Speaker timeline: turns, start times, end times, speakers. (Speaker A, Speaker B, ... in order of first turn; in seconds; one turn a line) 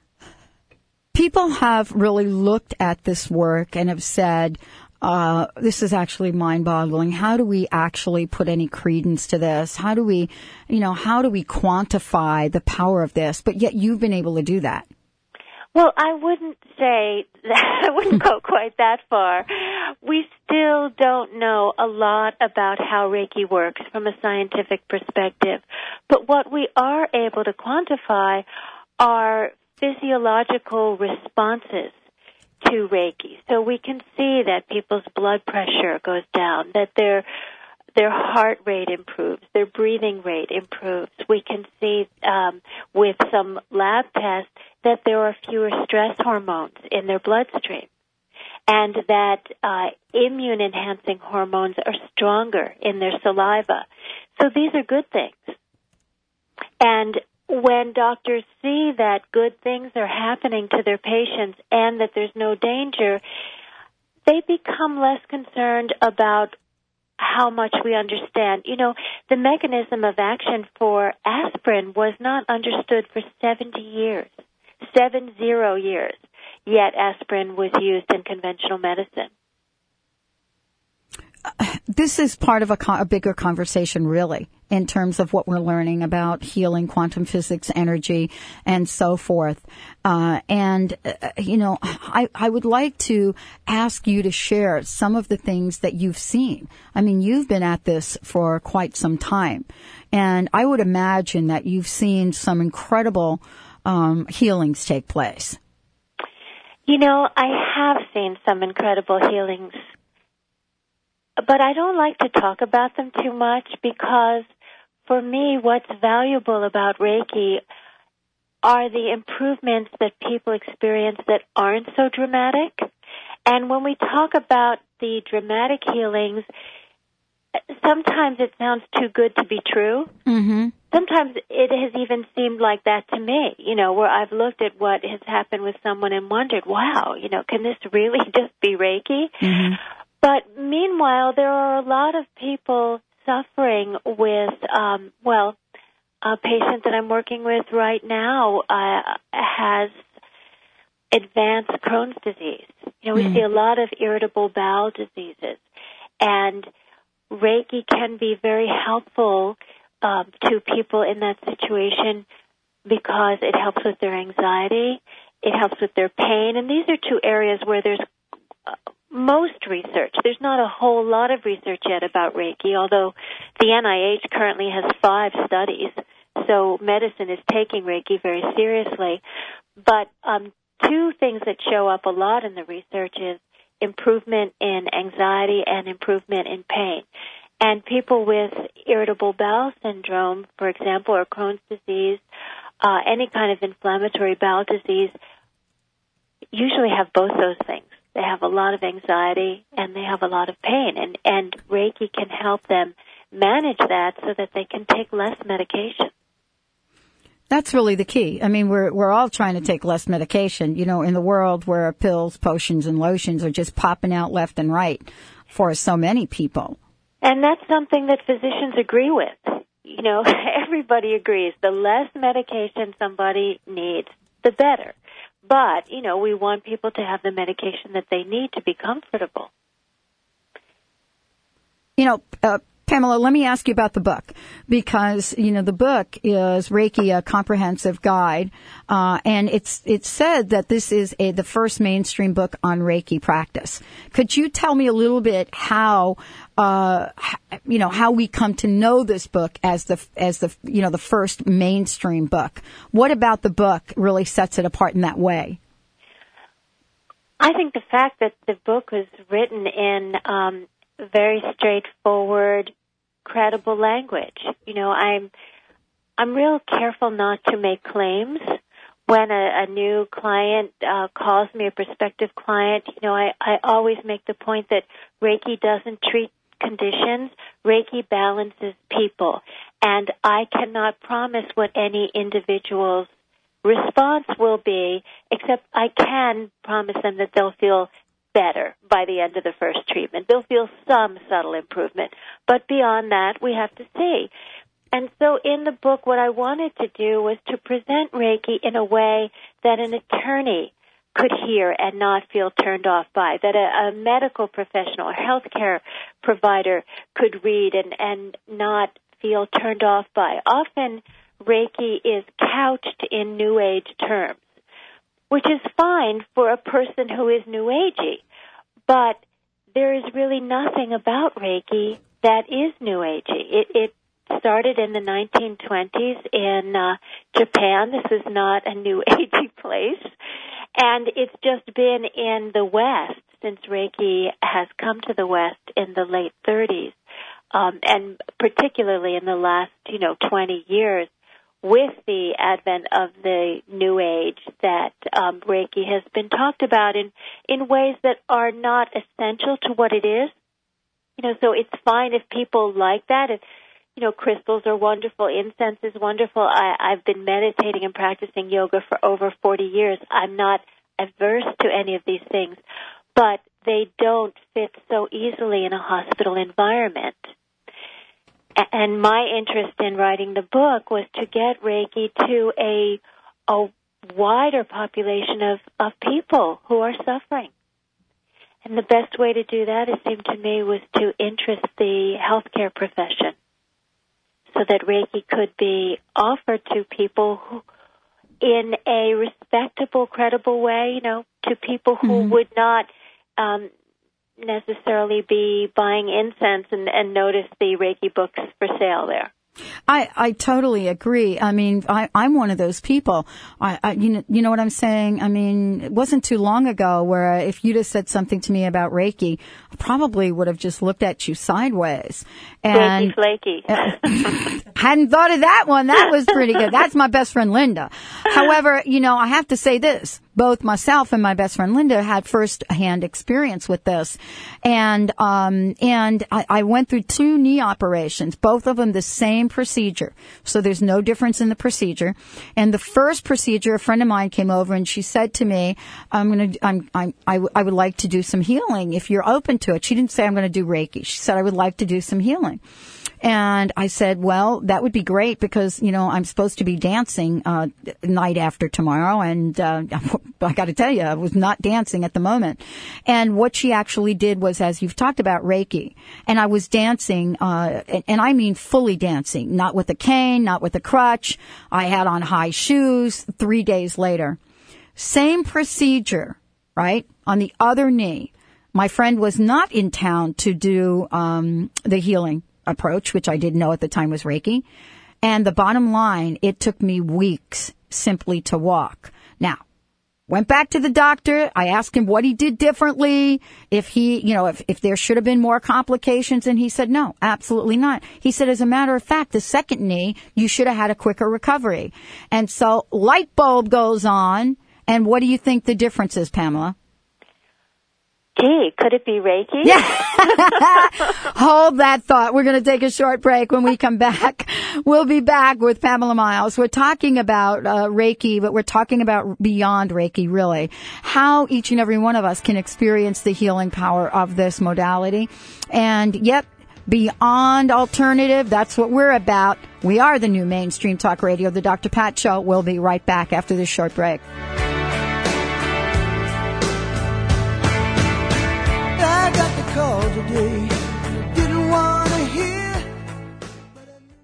Speaker A: 1.1-14.9
Speaker B: 15.8-28.4
Speaker B: 29.0-32.0
Speaker B: 32.6-37.3
Speaker B: 38.0-47.9
Speaker B: 48.7-53.9
Speaker B: 54.4-55.6
Speaker B: 56.8-63.2
Speaker B: 64.3-66.5
Speaker B: 67.2-74.3
Speaker B: 74.8-79.3
Speaker A: 81.5-105.6
Speaker B: 106.9-109.8
Speaker B: 111.4-114.5
Speaker B: 115.1-117.6
Speaker B: 118.6-122.9
Speaker B: 123.5-126.5
Speaker B: 127.7-130.1
Speaker A: 130.3-130.7
Speaker B: 130.9-139.5
Speaker A: 139.4-139.8
Speaker B: 140.2-145.6
Speaker B: 146.2-150.0
Speaker B: 151.1-155.6
Speaker A: 153.2-153.4
Speaker B: 156.2-156.7
Speaker B: 157.3-162.2
Speaker B: 162.9-168.0
Speaker B: 168.7-179.2
Speaker B: 179.8-187.1
Speaker B: 187.6-192.2
Speaker B: 192.8-195.1
Speaker B: 196.5-206.1
Speaker A: 207.5-216.8
Speaker B: 217.2-229.5
Speaker A: 232.0-255.6
Speaker B: 257.4-262.7
Speaker B: 263.2-265.3
Speaker B: 266.2-268.6
Speaker B: 269.1-283.1
Speaker B: 283.6-294.3
Speaker B: 294.9-314.4
Speaker B: 315.3-318.2
Speaker B: 318.9-319.2
Speaker B: 319.8-330.1
Speaker B: 330.8-337.0
Speaker B: 337.5-341.1
Speaker B: 341.6-350.3
Speaker B: 351.2-353.4
Speaker B: 354.0-362.6
Speaker B: 363.2-367.3
Speaker B: 368.6-377.5
Speaker B: 378.6-383.4
Speaker B: 384.6-387.6
Speaker B: 388.4-392.9
Speaker A: 392.0-392.4
Speaker B: 393.4-393.7
Speaker B: 394.4-399.3
Speaker A: 399.9-413.1
Speaker B: 412.7-414.3
Speaker A: 413.7-442.6
Speaker A: 443.2-464.4
Speaker A: 465.0-474.6
Speaker A: 475.2-479.6
Speaker A: 480.3-496.8
Speaker B: 498.4-500.5
Speaker A: 499.6-524.2
Speaker C: 529.0-532.9